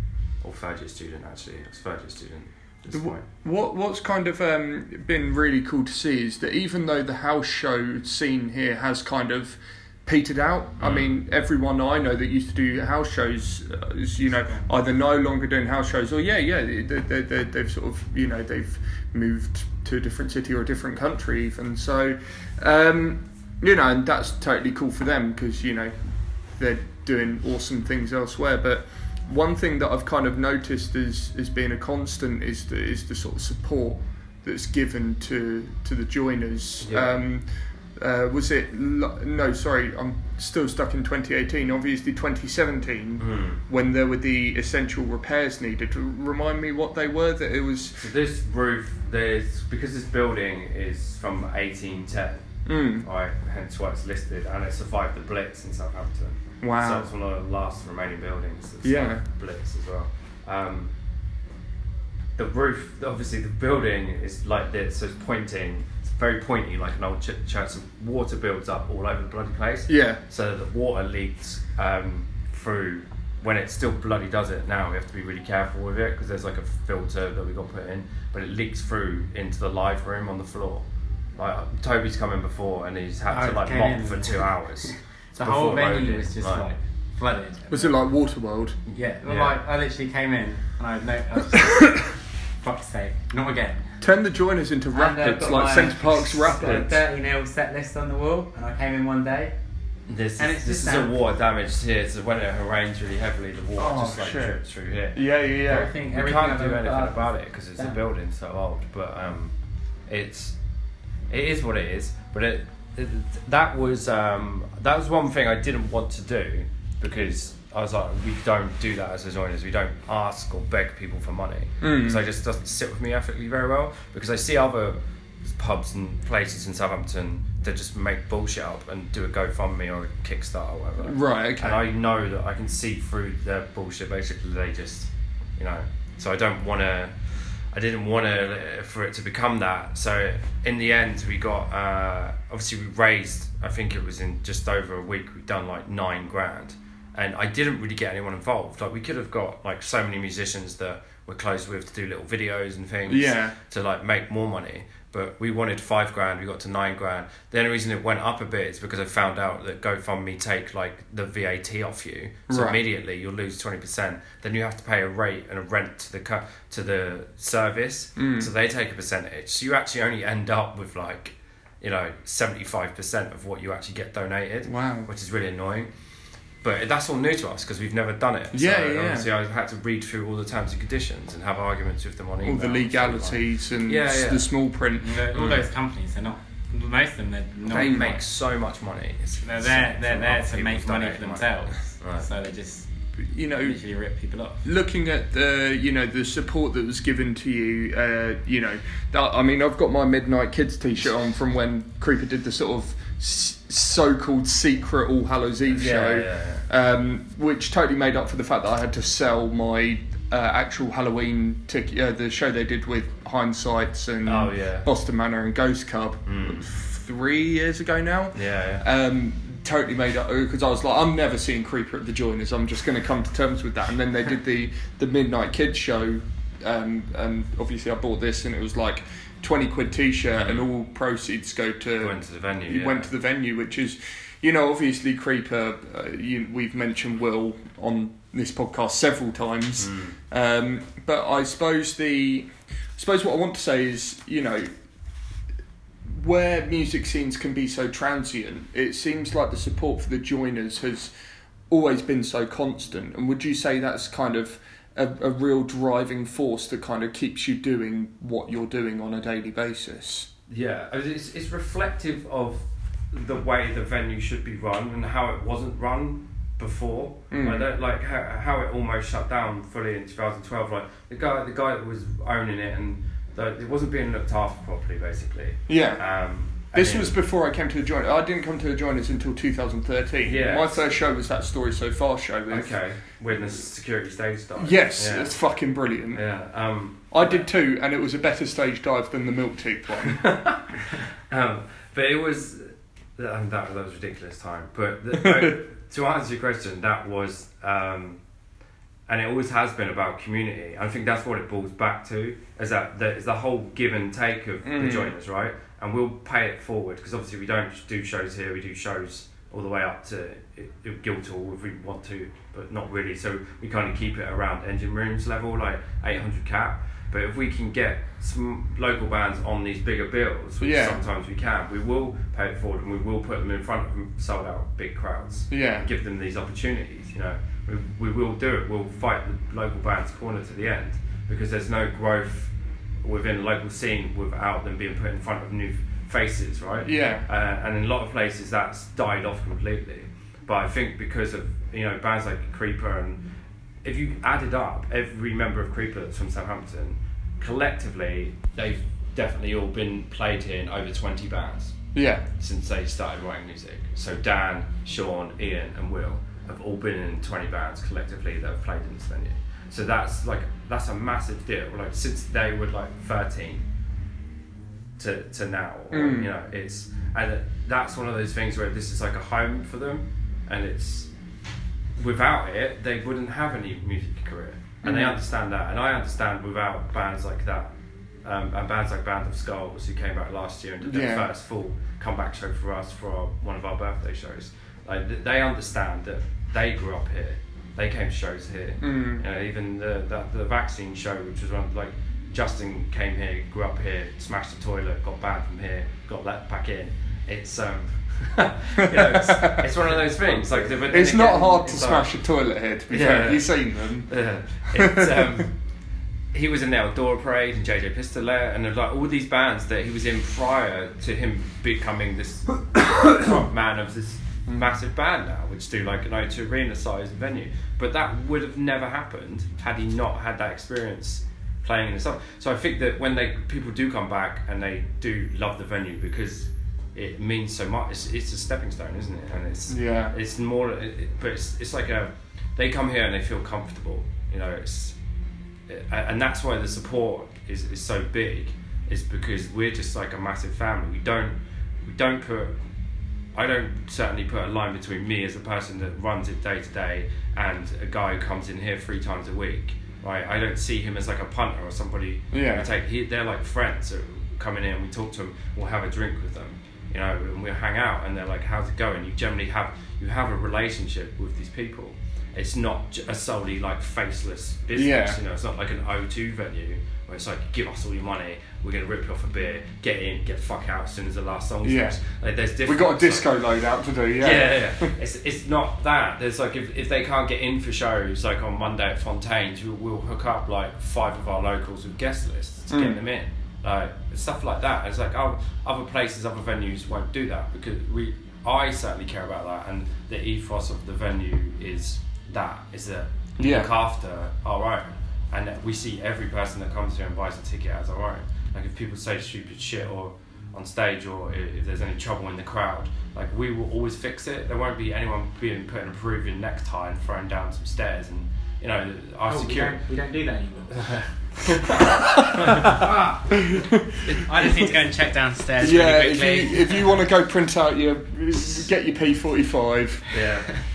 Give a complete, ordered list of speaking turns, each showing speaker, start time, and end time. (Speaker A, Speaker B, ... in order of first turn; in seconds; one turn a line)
Speaker A: 0.4-3.2
Speaker B: 2.9-48.1
Speaker A: 10.8-11.1
Speaker A: 36.8-37.2
Speaker A: 43.2-43.6
Speaker A: 48.0-60.9
Speaker B: 52.6-53.1
Speaker B: 56.6-57.1
Speaker B: 58.8-59.2
Speaker A: 62.4-86.7
Speaker B: 69.9-70.2
Speaker C: 83.3-87.9
Speaker B: 87.7-88.8
Speaker C: 88.9-94.0
Speaker A: 89.2-89.6
Speaker B: 94.0-97.0
Speaker C: 94.9-99.5
Speaker A: 96.4-97.0
Speaker A: 100.1-109.5
Speaker C: 100.4-101.1
Speaker B: 103.8-104.6
Speaker B: 105.1-105.9
Speaker C: 105.7-108.0
Speaker A: 110.1-110.6
Speaker A: 111.3-175.9
Speaker B: 121.8-122.2
Speaker B: 131.0-131.8
Speaker B: 153.1-153.6
Speaker B: 162.5-162.8
Speaker B: 168.2-168.5
Speaker B: 174.6-175.1
Speaker A: 176.6-184.5
Speaker B: 178.5-179.3
Speaker B: 182.4-185.2
Speaker C: 185.0-188.2
Speaker A: 185.3-185.7
Speaker A: 187.7-192.2
Speaker B: 187.8-188.1
Speaker C: 189.4-192.9
Speaker B: 193.2-193.8
Speaker C: 193.6-194.6
Speaker B: 194.6-244.7
Speaker A: 205.7-206.7
Speaker A: 214.2-214.9
Speaker A: 216.2-216.7
Speaker A: 218.3-218.8
Speaker A: 230.4-230.7
Speaker A: 232.0-233.1
Speaker A: 239.8-240.2
Speaker B: 246.1-251.1
Speaker B: 251.7-260.3
Speaker A: 260.5-277.1
Speaker B: 267.3-267.7
Speaker B: 275.7-276.0
Speaker B: 276.6-282.7
Speaker A: 280.2-280.8
Speaker A: 282.5-285.4
Speaker B: 284.6-286.2
Speaker A: 286.1-287.5
Speaker B: 287.1-290.3
Speaker A: 290.1-298.2
Speaker B: 295.1-295.6
Speaker A: 299.1-343.2
Speaker B: 304.6-305.1
Speaker B: 320.6-321.0
Speaker B: 325.5-325.9
Speaker B: 336.8-337.2
Speaker A: 343.8-351.8
Speaker B: 351.9-352.2
Speaker A: 352.4-363.6
Speaker A: 365.0-371.1
Speaker B: 365.9-366.3
Speaker A: 372.0-377.7
Speaker B: 374.8-375.2
Speaker A: 378.2-402.1
Speaker B: 380.8-381.3
Speaker B: 388.8-389.2
Speaker B: 398.8-399.9
Speaker C: 400.1-401.0
Speaker B: 400.9-404.1
Speaker A: 402.9-405.6
Speaker B: 404.7-405.5
Speaker A: 406.3-435.0
Speaker B: 429.7-430.1
Speaker A: 435.7-442.6
Speaker A: 443.3-473.3
Speaker B: 452.3-452.7
Speaker B: 464.7-465.2
Speaker B: 471.6-472.0
Speaker B: 472.6-474.9
Speaker A: 474.2-509.9
Speaker B: 482.7-483.0
Speaker B: 493.4-493.7
Speaker C: 509.3-511.8
Speaker A: 510.8-513.4
Speaker B: 511.9-512.5
Speaker B: 513.4-513.9
Speaker C: 514.0-517.0
Speaker B: 515.6-520.1
Speaker A: 520.1-520.5